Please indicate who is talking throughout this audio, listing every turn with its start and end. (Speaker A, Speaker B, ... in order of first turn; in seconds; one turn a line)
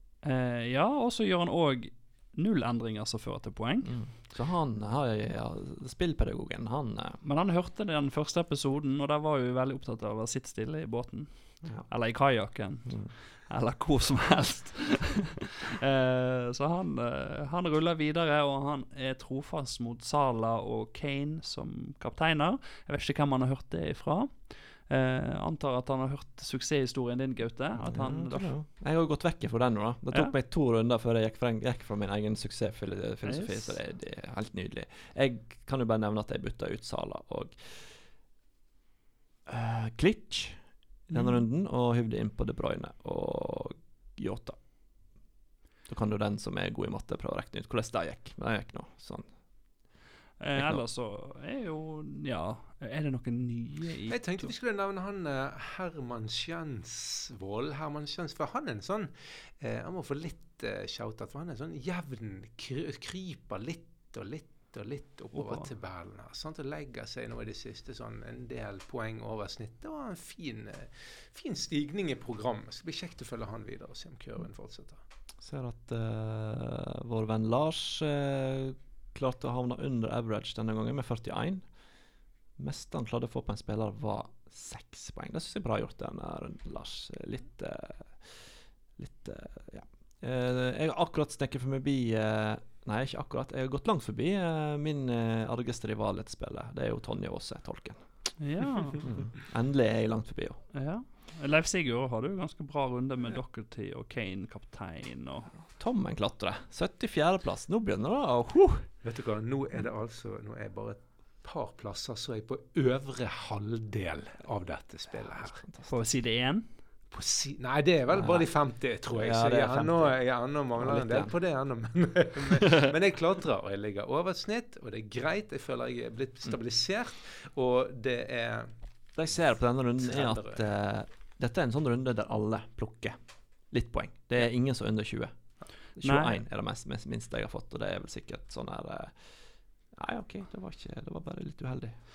Speaker A: 0.2-3.9
Speaker B: 3.8-7.2
Speaker A: 7.2-28.5
Speaker B: 12.9-13.1
Speaker B: 27.8-38.0
Speaker A: 33.2-33.8
Speaker B: 39.5-44.6
Speaker A: 41.1-41.4
Speaker B: 45.9-49.3
Speaker A: 50.4-54.5
Speaker B: 50.5-50.8
Speaker C: 54.1-75.0
Speaker A: 65.3-65.7
Speaker B: 75.4-81.6
Speaker B: 82.6-98.0
Speaker A: 98.4-99.1
Speaker B: 99.0-100.6
Speaker A: 100.7-105.6
Speaker B: 105.6-108.9
Speaker C: 109.0-115.6
Speaker B: 115.1-115.9
Speaker A: 115.9-116.7
Speaker C: 117.1-128.8
Speaker B: 118.1-118.5
Speaker B: 119.1-121.3
Speaker B: 129.2-135.3
Speaker C: 130.0-130.7
Speaker B: 135.9-139.2
Speaker A: 136.0-136.4
Speaker B: 139.9-142.0